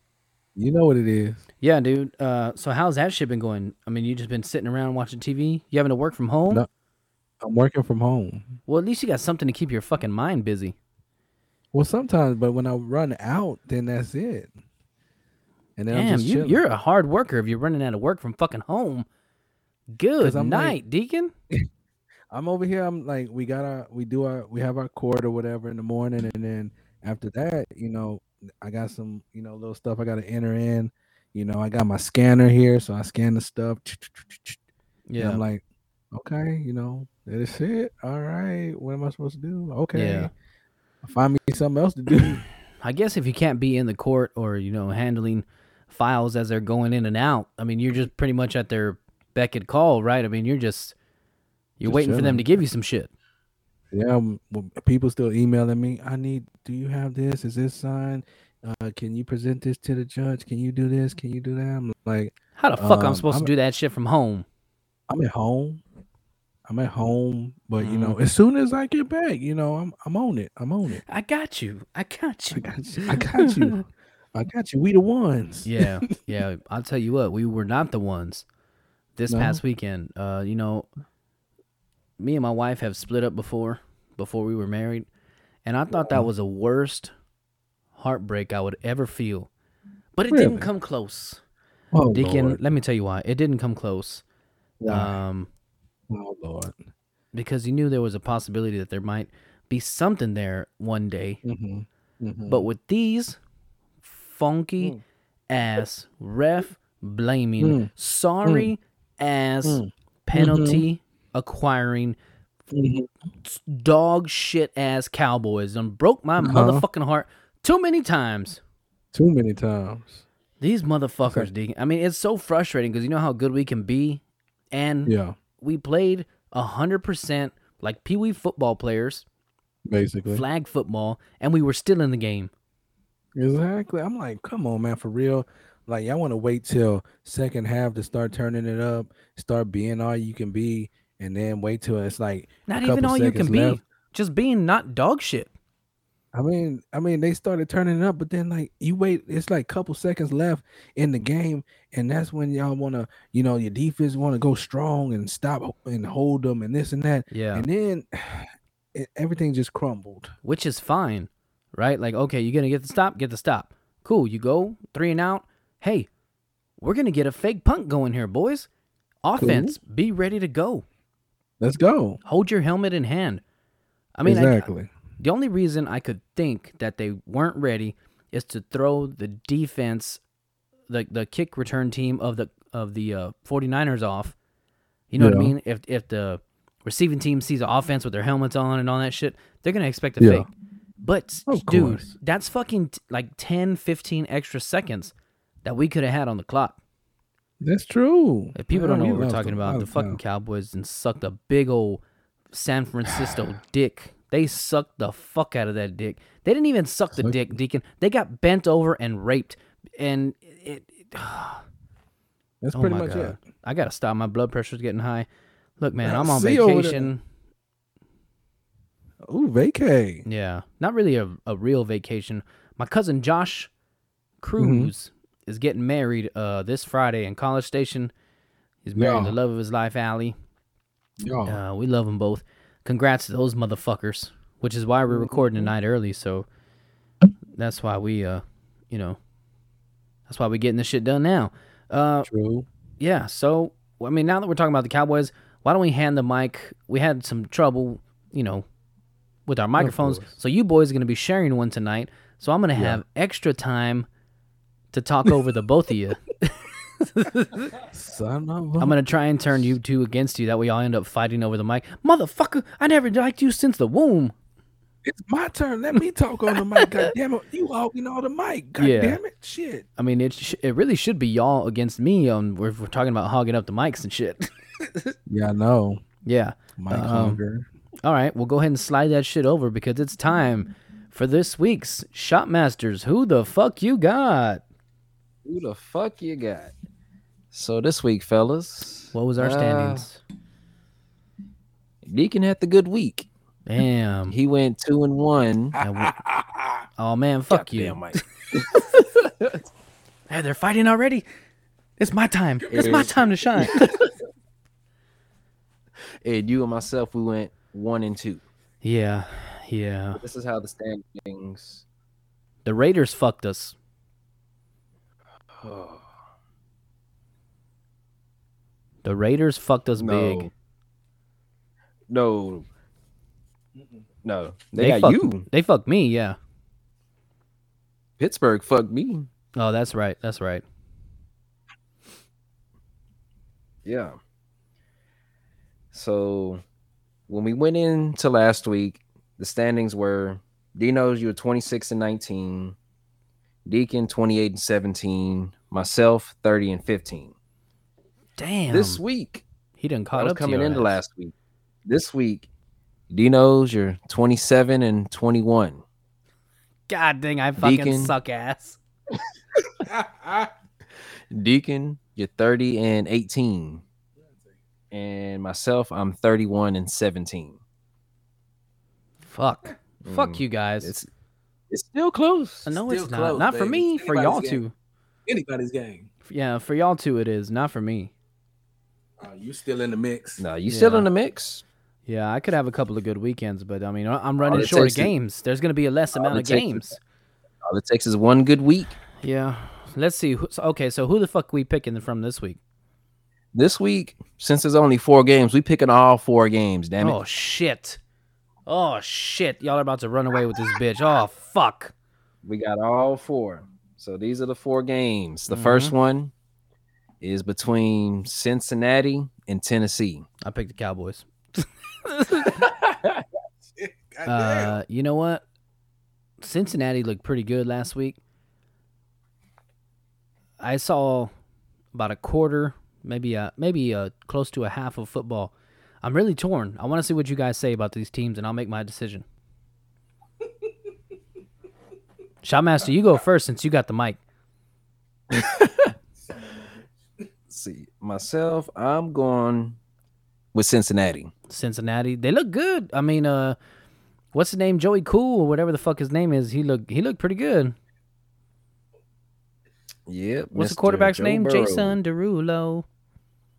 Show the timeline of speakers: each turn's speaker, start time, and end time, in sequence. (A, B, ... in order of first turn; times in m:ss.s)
0:00.6-0:01.4 A
0:01.6-0:06.6 B
0:07.4-0:08.6 A
0:08.7-0:10.8 B
0:11.7-0:14.5 A
0:15.8-0:16.6 A
0:15.9-0:19.1 B
0:19.9-0:21.3 B
0:20.2-0:20.8 A
0:22.3-0:34.6 A
0:35.1-0:35.4 B
0:35.2-0:40.3 A
0:39.9-0:40.3 B
0:41.0-0:42.5 A
0:42.8-0:50.9 B
0:51.8-0:53.1 B
0:51.8-0:52.5 A
0:53.9-1:03.5 A
1:02.6-1:04.4 B
1:05.1-1:05.8 A
1:06.7-1:11.0 A
1:07.8-1:08.2 B
1:11.0-1:13.8 B
1:12.5-1:16.1 A
1:15.7-1:18.4 B
1:19.2-1:20.9 B
1:19.3-1:19.6 A
1:22.2-1:25.1 B
1:25.6-1:27.1 B
1:26.0-1:26.3 A
1:28.0-1:29.5 B
1:30.1-1:31.4 B
1:30.3-1:30.7 A
1:31.9-1:32.8 A
1:32.1-1:34.2 B
1:34.8-1:35.2 A
1:34.9-1:35.5 B
1:36.1-1:36.8 A
1:37.3-1:41.4 B
1:41.4-1:42.7 A
1:42.5-1:43.4 B
1:44.0-1:45.0 B
1:45.5-1:52.2 B
1:47.6-1:47.9 A
1:48.4-1:48.7 A
1:49.6-1:50.8 A
1:52.7-1:53.1 A
1:53.4-1:58.6 B
1:56.4-1:56.8 A
1:59.1-2:00.2 A
2:00.6-2:09.2 B
2:05.1-2:05.4 A
2:09.9-2:10.4 A
2:10.3-2:12.5 B
2:13.4-2:23.8 A
2:22.7-2:25.5 B
2:26.3-2:40.3 A
2:37.3-2:37.7 B
2:40.4-2:46.1 B
2:46.8-2:48.7 B
2:49.2-2:50.8 B
2:49.4-2:49.8 A
2:51.6-2:52.2 A
2:52.2-2:53.4 B
2:54.2-2:54.7 B
2:54.2-2:54.9 A
2:55.2-3:00.2 B
3:00.9-3:04.4 B
3:05.1-3:10.5 B
3:05.2-3:05.5 A
3:10.2-3:10.5 A
3:11.0-3:15.1 B
3:11.5-3:12.1 A
3:15.6-3:16.8 B
3:17.6-3:20.2 A
3:18.6-3:22.0 B
3:22.5-3:31.6 B
3:27.2-3:27.5 A
3:32.6-3:33.4 A
3:32.7-3:35.3 B
3:35.8-3:37.2 B
3:36.0-3:37.1 A
3:39.2-3:40.2 A
3:40.2-3:43.7 B
3:44.4-3:48.1 B
3:44.6-3:44.9 A
3:48.8-3:50.4 B
3:49.0-3:49.4 A
3:51.2-3:51.6 A
3:51.4-3:56.4 B
3:55.1-3:55.7 A
3:57.5-3:59.2 B
4:00.3-4:02.3 B
4:02.2-4:02.7 A
4:03.0-4:08.7 B
4:09.5-4:14.1 B
4:09.8-4:10.3 A
4:12.8-4:13.0 A
4:14.9-4:17.8 B
4:17.8-4:19.0 A
4:18.8-4:24.3 B
4:25.0-4:29.8 A
4:26.8-4:27.1 B
4:28.8-4:29.2 B
4:30.0-4:35.1 B
4:35.3-4:36.0 A
4:36.2-4:37.4 B
4:36.8-4:37.7 A
4:38.0-4:44.6 B
4:45.4-4:46.8 C
4:47.5-4:50.1 C
4:49.1-4:50.2 B
4:52.0-4:53.3 C
4:53.7-4:54.4 B
4:54.3-4:55.8 C
4:55.8-4:56.2 B
4:56.0-4:56.8 A
4:57.0-4:58.2 B
4:57.5-4:58.6 C
4:59.2-4:59.5 C
5:00.3-5:01.2 B
5:02.0-5:03.9 B
5:02.7-5:03.1 A
5:02.7-5:03.9 C
5:06.2-5:08.4 C
5:08.8-5:10.2 B
5:10.2-5:11.8 C
5:12.6-5:13.7 B
5:15.6-5:16.1 C
5:19.0-5:20.5 B
5:20.0-5:20.5 C
5:22.1-5:22.7 C
5:24.2-5:25.4 C
5:24.8-5:26.4 B
5:28.2-5:29.3 C
5:29.6-5:30.6 B
5:33.8-5:34.2 C
5:35.9-5:36.6 C
5:37.3-5:42.8 C
5:43.7-5:47.3 C
5:48.4-5:49.0 B
5:48.7-5:49.4 C
5:49.8-5:51.0 B
5:50.2-5:51.3 C
5:51.8-5:52.5 C
5:53.1-5:55.8 C
5:56.9-5:58.8 B
5:57.6-5:58.2 C
5:59.8-6:00.5 A
6:01.3-6:03.8 C
6:04.2-6:04.6 A
6:04.9-6:07.6 C
6:09.2-6:11.0 B
6:10.0-6:11.1 C
6:11.7-6:12.7 C
6:12.7-6:14.7 B
6:12.8-6:14.6 A
6:15.3-6:16.1 A
6:16.3-6:18.1 B
6:19.2-6:20.4 A
6:20.4-6:21.6 C
6:20.7-6:21.1 B
6:22.1-6:27.0 B
6:24.4-6:25.1 C
6:26.2-6:26.9 C
6:27.6-6:29.0 C
6:29.2-6:32.6 B
6:33.5-6:37.2 C
6:37.0-6:38.0 B
6:38.7-6:41.9 B
6:42.4-6:46.3 C
6:45.5-6:45.9 B
6:47.2-6:50.3 C
6:50.4-6:52.7 B
6:53.8-6:54.8 A
6:54.2-6:55.4 B
6:56.4-6:58.2 B
7:00.6-7:01.3 B
7:01.9-7:09.2 B
7:12.4-7:14.2 B
7:17.5-7:19.8 C
7:20.5-7:21.3 C
7:21.5-7:23.6 B
7:24.3-7:27.8 B
7:30.1-7:32.0 C
7:30.6-7:32.8 B